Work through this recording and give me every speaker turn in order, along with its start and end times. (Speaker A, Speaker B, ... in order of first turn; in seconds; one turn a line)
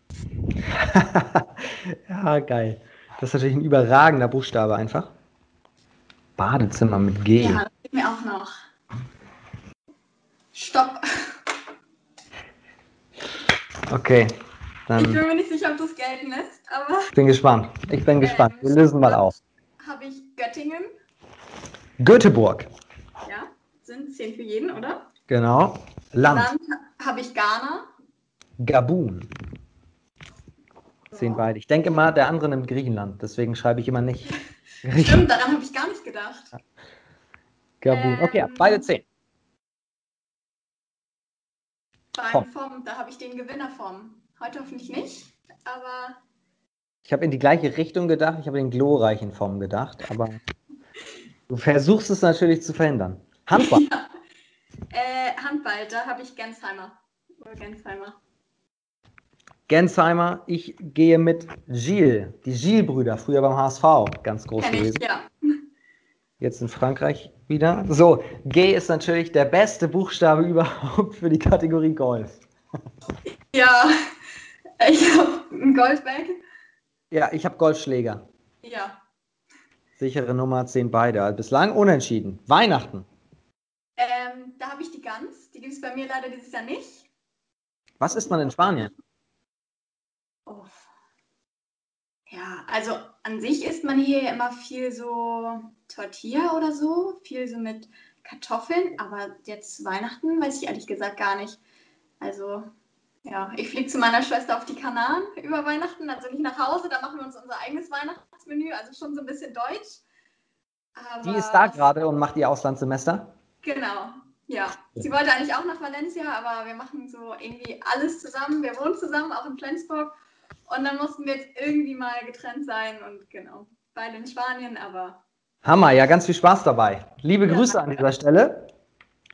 Speaker A: 0.6-5.1
Speaker A: 6.4-7.6
Speaker B: 7.4-8.5
Speaker B: 10.5-11.4
Speaker A: 13.9-14.3
Speaker A: 14.9-15.2
Speaker B: 15.0-17.1
Speaker A: 17.1-19.4
Speaker B: 18.2-20.9
Speaker A: 22.0-22.7
Speaker B: 23.2-25.1
Speaker A: 25.3-26.5
Speaker B: 26.2-27.9
Speaker A: 28.6-29.3
Speaker B: 31.1-31.4
Speaker A: 31.1-35.2
Speaker B: 35.0-36.5
Speaker A: 37.8-39.0
Speaker B: 37.9-38.9
Speaker B: 42.1-46.2
Speaker A: 47.1-50.4
Speaker A: 51.5-53.8
Speaker B: 53.5-54.1
Speaker B: 54.9-58.2
Speaker A: 59.7-65.0
Speaker B: 64.6-65.3
Speaker A: 66.4-72.4
Speaker B: 73.3-74.0
Speaker B: 74.8-76.4
Speaker A: 77.1-78.2
Speaker B: 78.6-79.0
Speaker A: 80.0-83.1
Speaker B: 84.0-87.1
Speaker A: 88.0-88.9
Speaker B: 90.5-90.9
Speaker B: 92.3-101.6
Speaker B: 102.2-102.7
Speaker B: 103.2-110.0
Speaker B: 111.0-111.8
Speaker A: 111.2-113.3
Speaker B: 113.6-120.1
Speaker B: 120.7-125.2
Speaker A: 125.7-128.7
Speaker B: 127.5-128.0